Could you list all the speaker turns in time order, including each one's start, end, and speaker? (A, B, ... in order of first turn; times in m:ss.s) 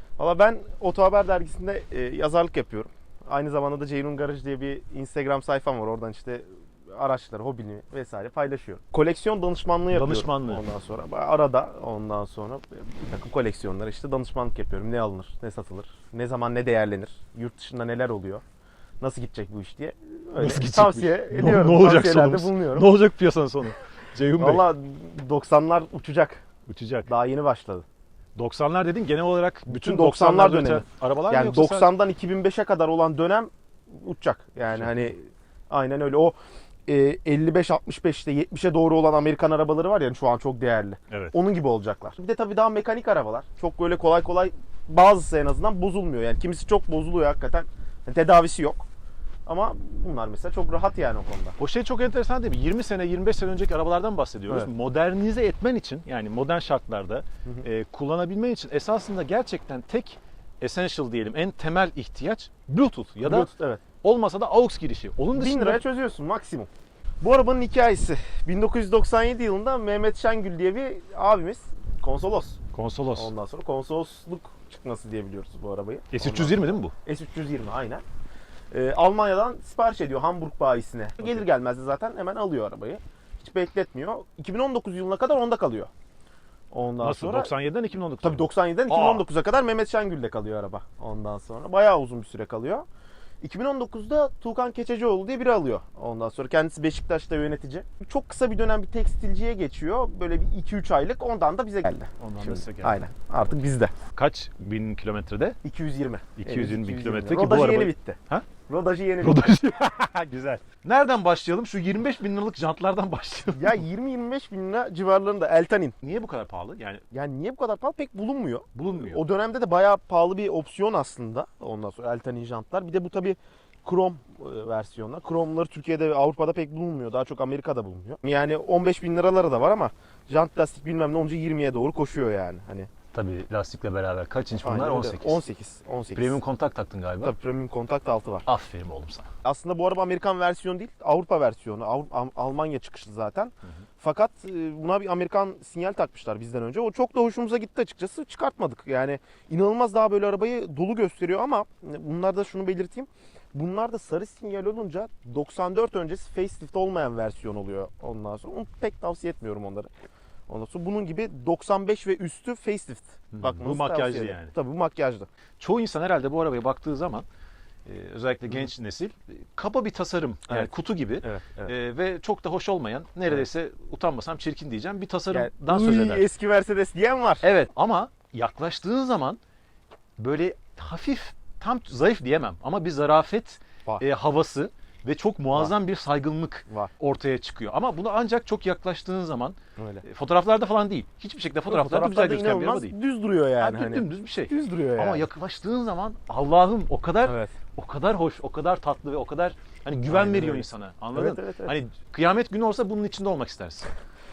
0:00.2-0:18.4 A
0:09.9-0:10.6 B
0:19.0-0:22.9 A
0:20.4-0:24.7 B
0:24.4-0:26.4 A
0:26.7-0:27.1 B
0:27.1-0:27.8 A
0:28.4-0:31.9 B
0:29.7-0:48.9 A
0:34.7-0:35.0 B
0:41.1-0:41.4 B
0:49.5-0:51.6 A
0:51.6-1:03.5 B
1:03.2-1:03.8 A
1:04.0-1:05.8 B
1:05.3-1:06.7 A
1:07.2-1:12.6 A
1:12.7-1:13.3 B
1:13.1-1:18.0 A
1:16.1-1:16.9 B
1:18.7-1:25.9 A
1:26.7-1:27.5 A
1:27.0-1:29.3 B
1:28.2-1:32.9 A
1:33.4-1:43.9 A
1:42.2-1:43.1 B
1:44.1-1:45.6 B
1:45.6-1:49.6 A
1:46.4-1:48.5 B
1:49.2-1:53.8 B
1:53.5-1:56.0 A
1:56.0-1:57.0 B
1:57.1-2:12.9 A
1:58.7-1:59.2 B
2:13.1-2:15.4 B
2:14.6-2:16.4 A
2:16.2-2:17.4 B
2:17.2-2:18.4 A
2:18.5-2:19.3 B
2:19.4-2:39.9 A
2:40.5-2:45.3 A
2:43.3-2:44.5 B
2:45.6-2:47.2 B
2:47.9-2:56.3 B
2:51.2-2:51.7 A
2:55.3-2:57.4 A
2:57.4-2:59.4 B
3:00.2-3:13.0 B
3:09.8-3:10.0 A
3:11.7-3:15.3 A
3:13.6-3:23.9 B
3:17.2-3:17.6 A
3:20.1-3:21.7 A